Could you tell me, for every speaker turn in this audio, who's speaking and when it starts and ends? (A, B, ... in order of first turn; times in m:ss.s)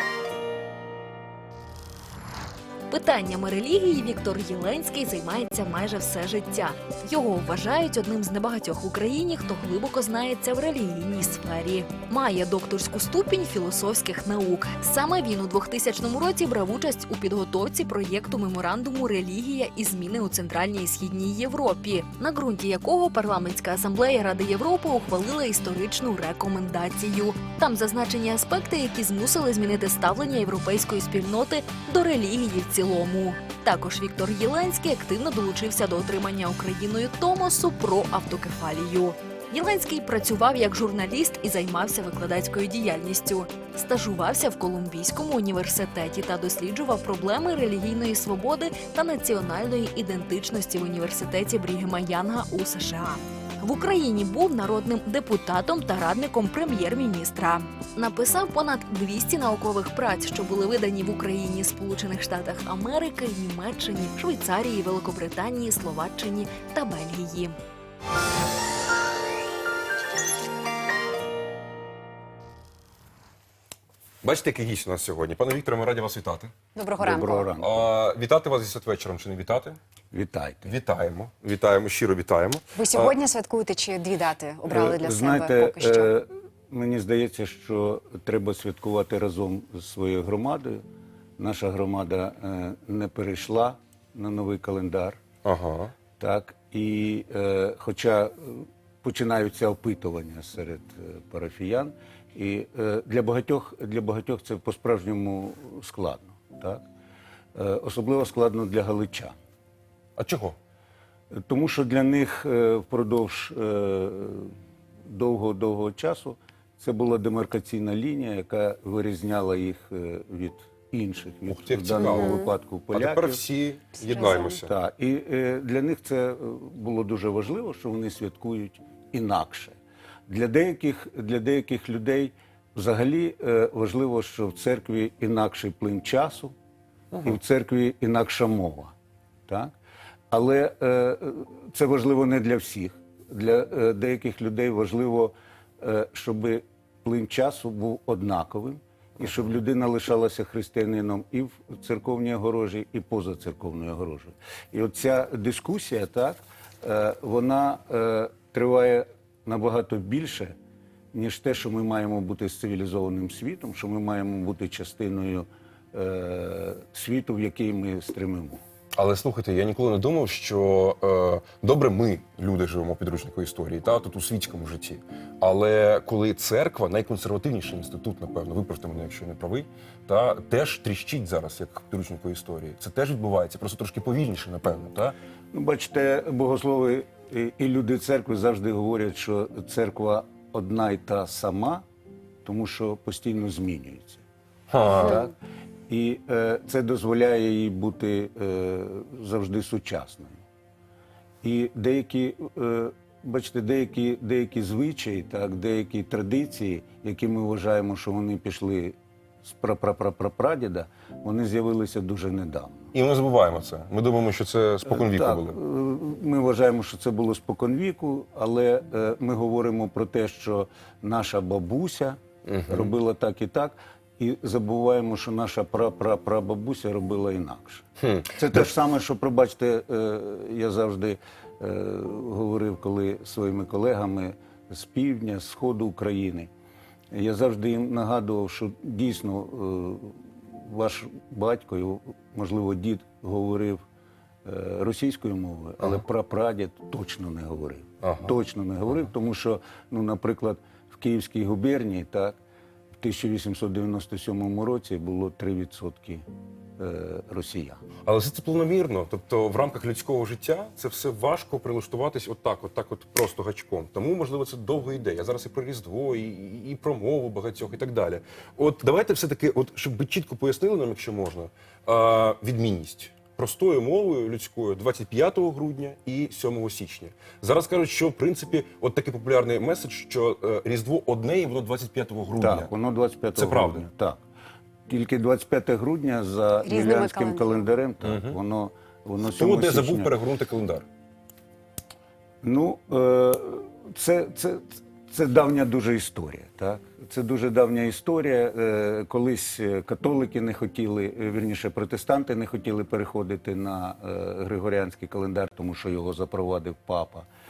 0:02.9-1:07.6 A
1:14.2-1:16.5 B
1:16.8-1:17.5 C
1:17.0-1:17.9 D
1:17.6-1:19.8 B
1:20.1-1:20.7 D
1:20.7-1:23.2 B
1:22.8-1:26.1 C
1:24.7-1:30.8 D
1:31.4-1:35.2 D
1:35.4-1:35.9 B
1:36.2-1:46.8 D
1:47.6-1:49.4 D
1:50.2-1:50.6 B
1:51.4-1:54.5 D
1:55.0-2:03.4 D
2:01.5-2:02.4 B
2:02.0-2:02.5 C
2:02.9-2:04.7 B
2:04.1-2:04.5 C
2:04.5-2:09.8 D
2:10.3-2:16.6 D
2:17.2-2:18.9 D
2:19.5-2:19.7 D
2:20.3-2:40.6 D
2:41.1-2:48.6 D
2:49.0-3:05.2 B
3:05.5-3:11.8 D
3:12.4-3:14.2 D
3:14.7-3:15.2 B
3:14.9-3:15.3 D
3:15.9-3:20.4 D
3:21.4-3:32.9 D
3:32.9-3:35.6 B
3:34.9-3:56.5 D
3:42.4-3:42.9 B
3:48.0-3:48.6 B
3:57.1-4:03.8 D
4:04.4-4:12.4 D
4:08.0-4:08.3 B
4:13.0-4:16.2 D
4:16.8-4:17.8 D
4:18.0-4:42.7 B
4:42.4-4:44.2 D
4:43.4-4:43.8 B
4:44.9-4:50.2 D
4:46.6-4:47.5 C
4:48.0-4:48.4 B
4:49.2-4:50.9 B
4:52.4-5:07.3 D